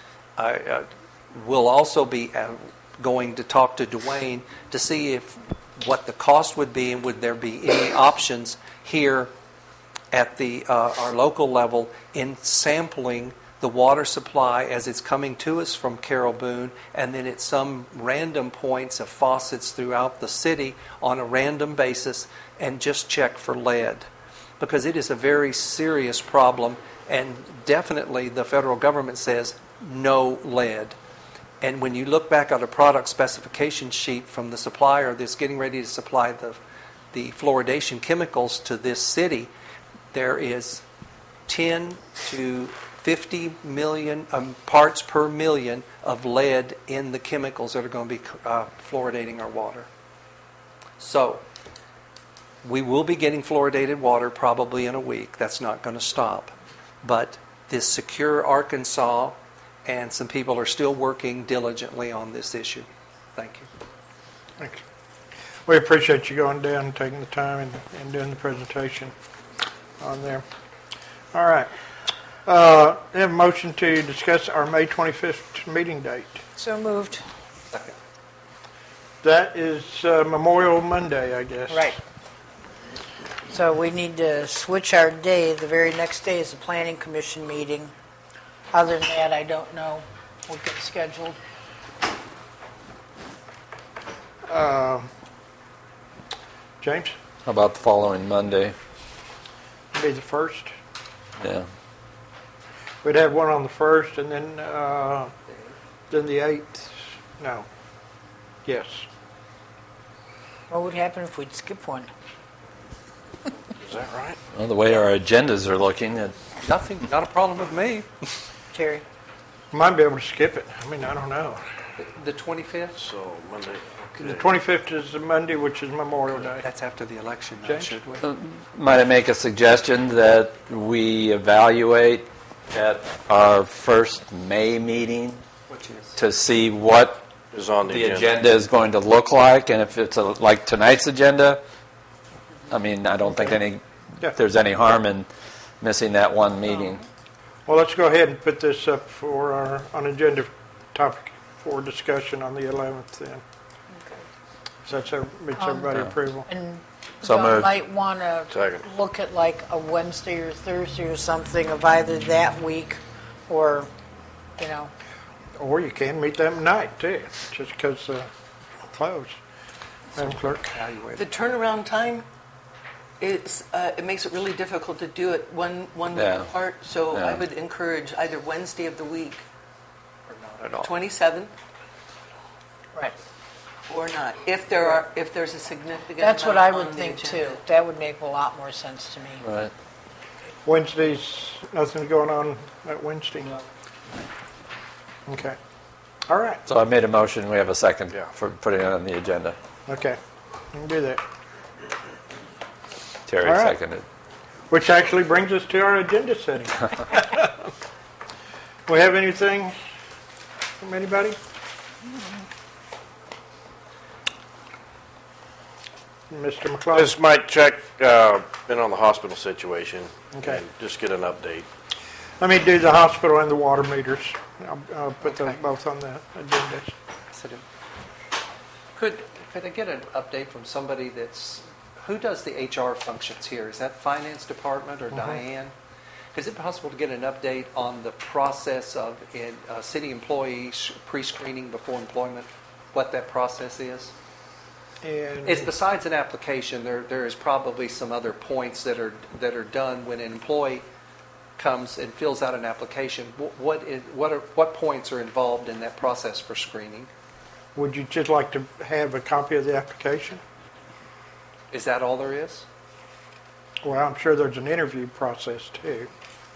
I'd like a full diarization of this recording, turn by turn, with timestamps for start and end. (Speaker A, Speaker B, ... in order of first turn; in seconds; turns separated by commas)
Speaker A: 0.4-9.3, Speaker A: 10.1-24.1, Speaker A: 24.6-31.0, Speaker A: 31.6-36.6, Speaker A: 37.1-39.5, Speaker A: 40.1-40.8, Speaker A: 41.5-49.9, Speaker A: 51.0-51.4, Speaker A: 52.6-63.7, Speaker B: 65.7-69.1, Speaker B: 70.0-70.4, Speaker B: 71.3-71.7, Speaker B: 72.5-76.4, Speaker C: 76.6-77.2, Speaker B: 79.2-82.0, Speaker C: 81.7-82.0, Speaker C: 83.5-87.9, Speaker C: 88.7-91.4, Speaker B: 94.5-95.1, Speaker B: 96.8-97.1, Speaker D: 97.4-98.7, Speaker B: 99.9-100.7, Speaker D: 101.4-101.7, Speaker B: 103.0-105.3, Speaker B: 106.1-107.7, Speaker B: 108.7-109.1, Speaker C: 110.7-112.1, Speaker E: 113.8-114.4, Speaker D: 114.5-116.3, Speaker A: 116.6-118.1, Speaker C: 118.7-119.0, Speaker B: 119.7-121.6, Speaker A: 122.0-123.0, Speaker E: 123.0-124.5, Speaker B: 124.2-126.7, Speaker A: 126.3-128.3, Speaker B: 127.6-127.9, Speaker D: 128.2-135.4, Speaker A: 135.7-136.2, Speaker D: 136.2-137.2, Speaker E: 137.5-138.3, Speaker D: 137.9-141.6, Speaker D: 142.7-145.3, Speaker B: 143.2-143.6, Speaker D: 145.8-147.0, Speaker B: 147.7-153.4, Speaker B: 154.8-156.5, Speaker C: 155.6-155.9, Speaker C: 156.5-163.9, Speaker D: 157.2-157.7, Speaker E: 158.5-158.8, Speaker C: 164.6-164.9, Speaker B: 165.6-168.3, Speaker B: 168.9-169.4, Speaker B: 170.1-170.8, Speaker A: 170.7-171.3, Speaker F: 171.2-172.2, Speaker F: 173.2-179.4, Speaker D: 176.1-176.5, Speaker D: 177.1-177.4, Speaker A: 180.3-180.9, Speaker F: 180.8-181.5, Speaker F: 183.9-187.6, Speaker C: 186.2-189.4, Speaker D: 189.4-189.7, Speaker B: 190.6-193.6, Speaker B: 195.3-195.6, Speaker B: 196.3-196.6, Speaker D: 196.7-199.5, Speaker B: 199.9-200.2, Speaker B: 200.7-201.2, Speaker D: 203.3-204.0, Speaker B: 203.4-203.8, Speaker B: 204.7-207.7, Speaker B: 208.9-209.7, Speaker B: 210.8-211.4, Speaker B: 216.3-217.1, Speaker E: 216.9-221.7, Speaker B: 220.3-220.6, Speaker B: 222.4-226.9, Speaker A: 225.2-225.6, Speaker A: 227.3-227.6, Speaker A: 228.9-235.7, Speaker B: 235.1-235.4, Speaker A: 236.3-244.1, Speaker B: 245.0-245.7, Speaker A: 245.4-250.8, Speaker A: 251.6-257.1, Speaker B: 257.7-260.4, Speaker A: 261.7-262.6, Speaker B: 263.8-266.1